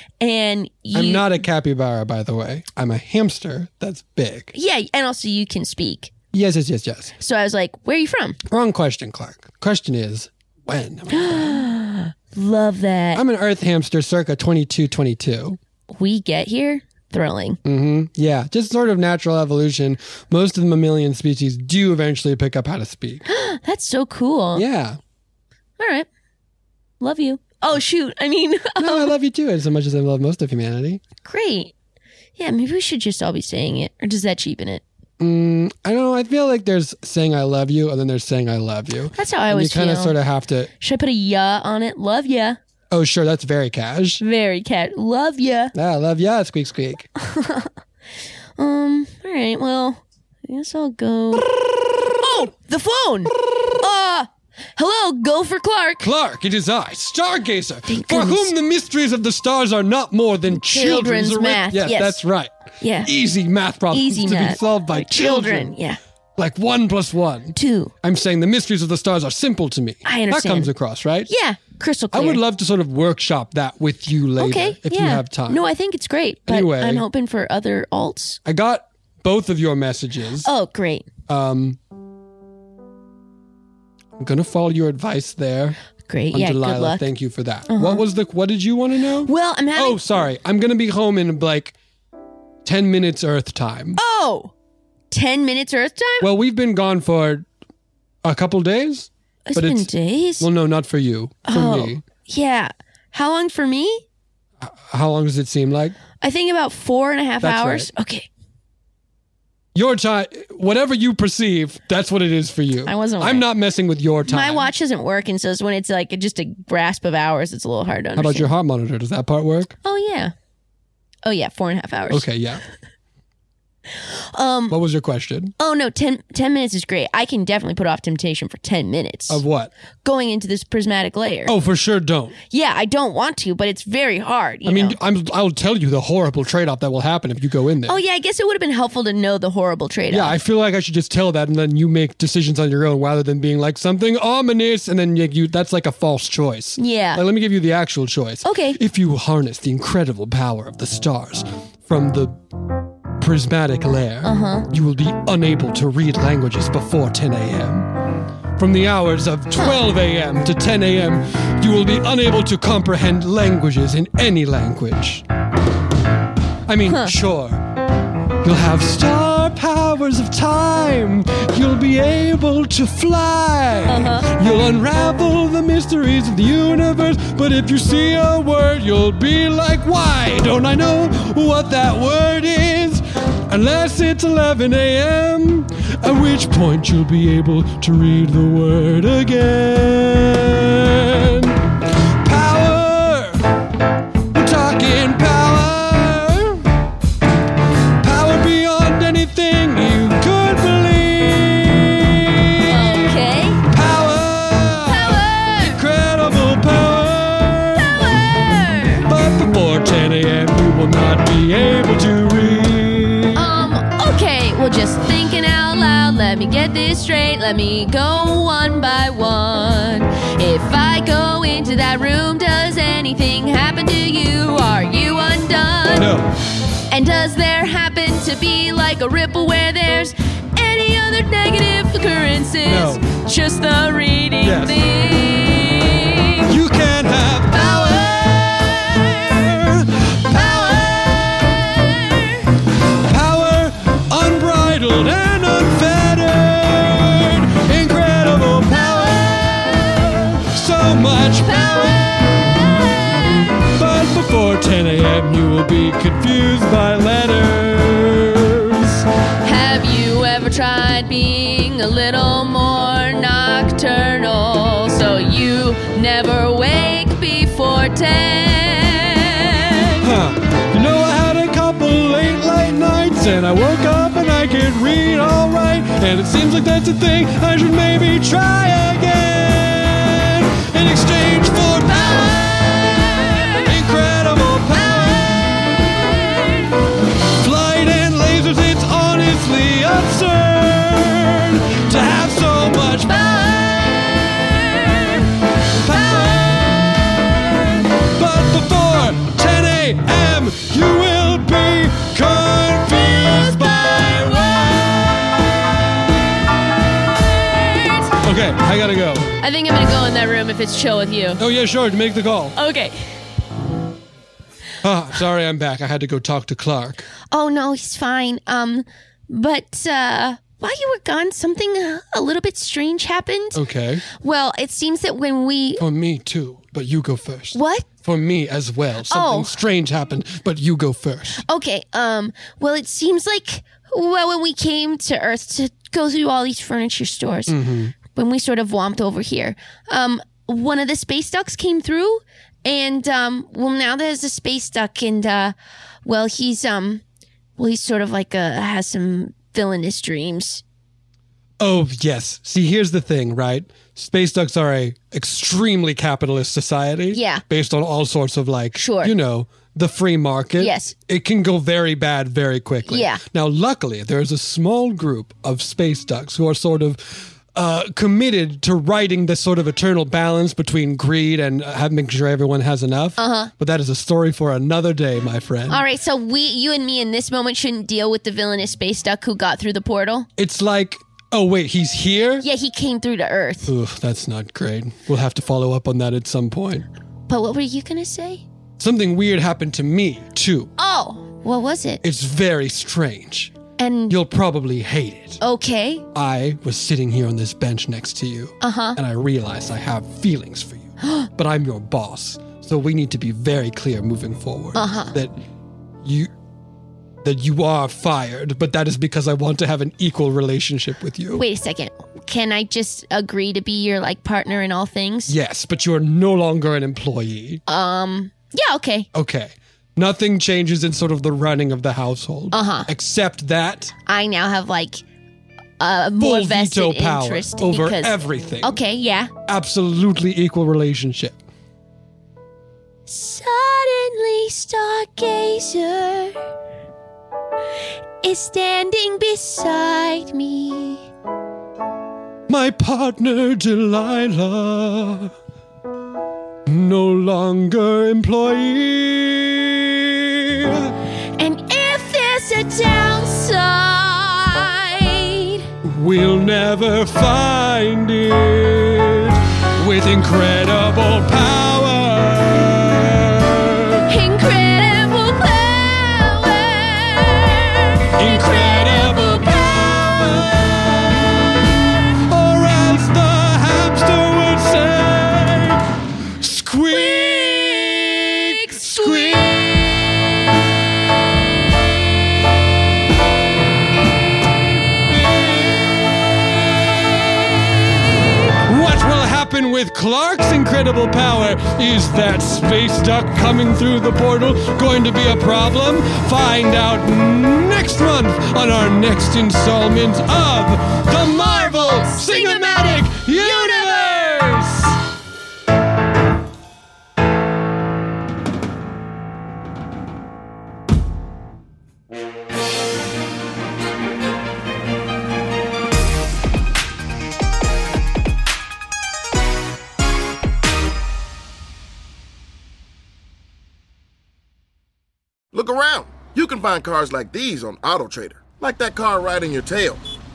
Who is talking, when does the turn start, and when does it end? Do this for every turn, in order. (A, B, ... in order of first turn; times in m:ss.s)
0:00.2-0:01.4 A
0:00.9-0:04.5 B
0:04.5-0:06.1 A
0:06.3-0:07.1 B
0:07.2-0:08.4 A
0:08.5-0:11.6 B
0:11.1-0:13.2 A
0:13.1-0:15.6 B
0:15.9-0:17.6 A
0:17.6-0:23.2 B
0:23.3-0:24.6 A
0:24.5-0:25.0 B
0:25.8-0:26.1 A
0:27.0-0:29.1 A
0:28.8-0:31.0 B
0:31.2-0:31.7 A
0:32.4-0:34.8 A
0:35.2-0:40.7 B
0:39.1-0:40.1 A
0:40.8-0:42.6 A
0:42.9-0:44.2 B
0:44.2-0:45.7 A
0:45.7-0:47.1 B
0:47.2-0:47.7 A
0:48.6-0:51.5 A
0:52.2-0:56.1 A
0:56.0-1:02.5 B
0:57.9-0:58.5 A
1:00.5-1:02.2 A
1:02.8-1:03.1 A
1:03.0-1:05.7 B
1:03.9-1:06.0 A
1:06.4-1:11.3 B
1:07.6-1:07.9 A
1:10.0-1:10.7 A
1:11.3-1:12.4 A
1:12.1-1:15.6 B
1:14.4-1:18.4 A
1:16.5-1:17.0 B
1:18.4-1:20.5 B
1:20.4-1:21.1 A
1:21.3-1:21.8 B
1:24.2-1:25.8 B
1:26.1-1:27.1 A
1:26.3-1:31.7 B
1:27.7-1:28.0 A
1:29.2-1:30.0 A
1:32.6-1:34.0 B
1:34.0-1:34.5 A
1:35.1-1:36.3 A
1:36.2-1:37.4 B
1:38.2-1:39.9 B
1:39.5-1:40.5 A
1:40.4-1:42.0 B
1:41.4-1:44.0 A
1:44.6-1:46.0 B
1:46.2-1:48.3 A
1:47.4-1:47.9 B
1:49.7-1:54.7 B
1:52.8-1:53.5 A
1:54.2-1:58.5 A
1:58.2-1:59.7 B
1:59.8-2:00.3 A
2:01.2-2:02.3 A
2:02.1-2:02.6 B
2:04.3-2:04.8 A
2:04.7-2:05.5 B
2:05.6-2:09.4 A
2:09.3-2:09.7 B
2:10.0-2:11.5 A
2:11.5-2:12.4 B
2:12.5-2:15.0 A
2:14.6-2:18.0 B
2:17.9-2:20.4 A
2:20.1-2:32.4 B
2:26.8-2:27.2 A
2:28.4-2:28.8 A
2:33.2-2:37.9 B
2:34.2-2:34.7 A
2:38.6-2:45.2 B
2:39.5-2:39.8 A
2:46.7-2:47.6 B
2:46.8-2:47.1 A
2:48.4-3:11.7 B
2:53.9-2:54.3 A
3:12.2-3:13.5 B
3:14.3-3:16.7 B
3:18.0-3:28.3 B
3:22.7-3:23.6 A
3:24.8-3:25.8 A
3:27.7-3:29.1 A
3:29.1-3:33.6 B
3:33.3-3:46.1 A
3:45.9-3:46.3 B
3:46.9-3:56.5 A
3:52.6-3:53.0 B
3:54.4-3:54.8 B
3:56.5-4:02.3 B
3:57.5-3:58.2 A
4:00.3-4:00.8 A
4:01.8-4:02.3 A
4:03.0-4:19.0 B
4:11.4-4:13.5 A
4:19.4-4:30.0 A
4:30.0-4:46.5 B
4:41.8-4:43.6 A
4:46.1-4:46.7 A
4:47.2-4:54.4 B
4:53.0-4:55.2 A
4:55.6-5:06.1 B
5:03.2-5:04.8 A
5:07.6-5:08.1 A
5:08.2-5:09.3 B
5:09.4-5:11.4 A
5:11.4-5:12.6 B
5:12.6-5:12.9 A
5:14.8-5:17.1 B
5:17.3-5:25.8 A
5:23.5-5:24.0 B
5:25.8-5:31.4 B
5:27.5-5:27.9 A
5:29.1-5:29.5 A
5:31.4-5:47.0 A
5:37.5-5:37.9 B
5:47.6-5:50.6 A
5:51.6-6:15.8 B
5:57.1-5:57.4 A
5:58.7-5:59.1 A
6:00.6-6:00.9 A
6:02.9-6:03.2 A
6:13.2-6:13.5 A
6:15.7-6:20.3 A
6:20.4-6:22.4 B
6:22.4-6:23.7 A
6:23.6-6:26.8 B
6:27.3-6:28.4 A
6:28.8-6:30.7 B
6:30.8-6:32.0 A
6:32.0-6:33.6 B
6:33.8-6:34.2 A
6:34.1-6:35.4 B
6:35.4-6:36.0 A
6:36.1-6:45.4 B
6:38.6-6:39.0 A
6:41.0-6:41.3 A
6:44.7-6:45.2 A
6:46.0-6:46.3 B
6:47.2-6:51.4 B
6:51.3-6:55.3 A
6:55.3-6:57.6 B
6:57.7-6:59.1 A
6:59.1-7:03.9 B
7:02.5-7:02.9 A
7:04.0-7:05.0 A
7:05.8-7:09.3 A
7:06.2-7:08.8 B
7:09.4-7:11.4 B
7:13.1-7:16.4 A
7:18.2-7:21.1 A
7:22.5-7:25.3 B
7:26.6-7:30.9 B
7:31.4-7:35.6 A
7:35.8-7:44.1 B
7:44.1-7:50.1 A
7:48.2-7:55.8 B
7:56.4-8:00.1 B
7:56.9-7:57.9 A
7:58.5-7:59.6 A
8:05.1-8:06.9 B
8:08.6-8:25.0 B
8:21.1-8:24.4 A
8:45.5-8:50.0 C